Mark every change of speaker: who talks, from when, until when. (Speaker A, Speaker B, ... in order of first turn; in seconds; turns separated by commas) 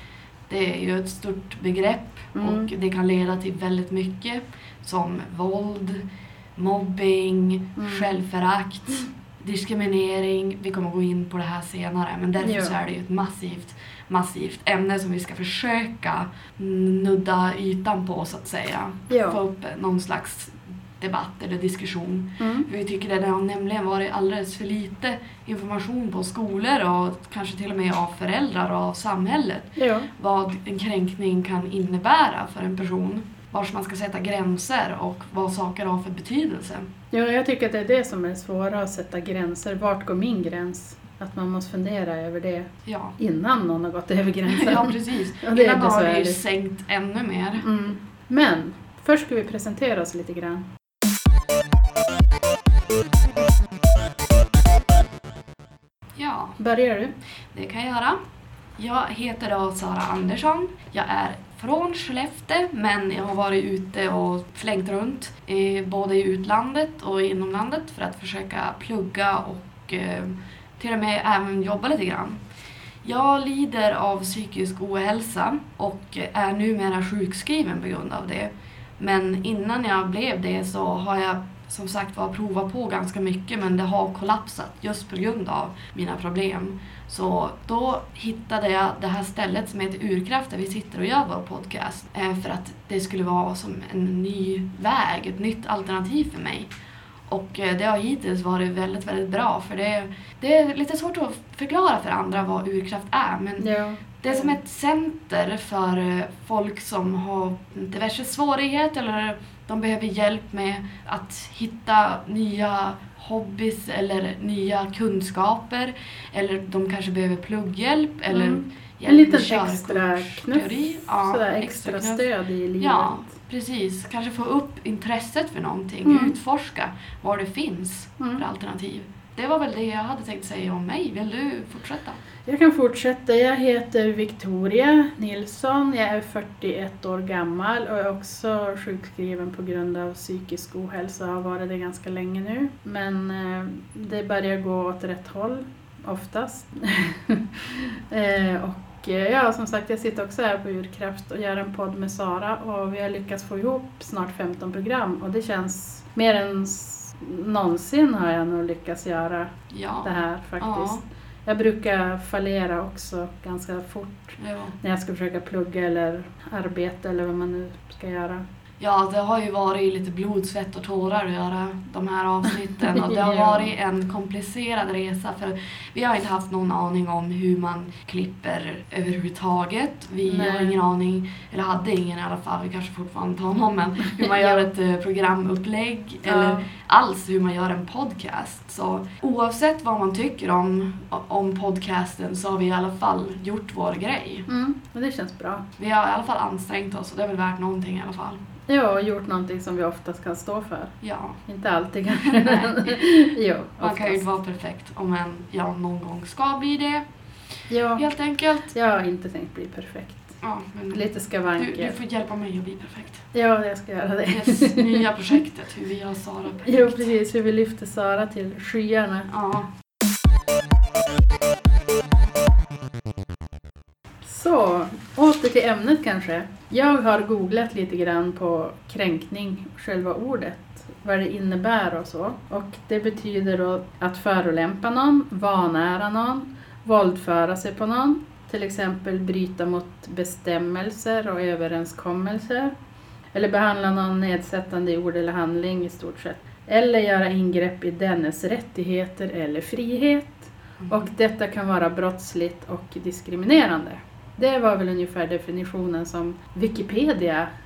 Speaker A: 0.5-6.0, Speaker B: 2.4-2.7, Speaker A: 6.6-36.9, Speaker B: 7.8-8.1, Speaker B: 12.4-12.7, Speaker B: 19.1-19.4, Speaker B: 22.4-22.7, Speaker B: 29.8-30.1, Speaker B: 37.1-46.4, Speaker A: 42.9-43.2, Speaker A: 44.5-47.6, Speaker B: 47.6-50.6, Speaker A: 56.2-56.6, Speaker B: 56.6-57.1, Speaker A: 57.5-58.2, Speaker A: 58.8-72.4, Speaker A: 73.0-96.7, Speaker A: 97.3-103.7, Speaker B: 103.6-104.5, Speaker A: 104.2-122.2, Speaker B: 118.3-123.4, Speaker A: 122.8-132.2, Speaker B: 126.0-126.3, Speaker B: 132.5-168.4, Speaker A: 159.7-161.0, Speaker A: 164.4-164.8, Speaker A: 168.8-194.5, Speaker B: 172.9-173.7, Speaker B: 180.2-180.8, Speaker B: 184.2-184.7, Speaker B: 186.2-186.7, Speaker B: 194.5-195.7, Speaker A: 195.8-198.4, Speaker B: 198.7-200.9, Speaker A: 201.0-201.4, Speaker B: 201.5-204.2, Speaker A: 202.1-203.0, Speaker A: 203.8-207.1, Speaker B: 207.7-208.0, Speaker A: 207.9-208.7, Speaker B: 208.7-210.4, Speaker A: 210.4-211.1, Speaker B: 210.9-211.9, Speaker A: 211.6-213.2, Speaker B: 213.3-215.1, Speaker A: 214.3-217.1, Speaker B: 216.7-219.3, Speaker A: 219.3-219.7, Speaker B: 224.2-242.7, Speaker B: 243.3-257.5, Speaker A: 250.8-251.1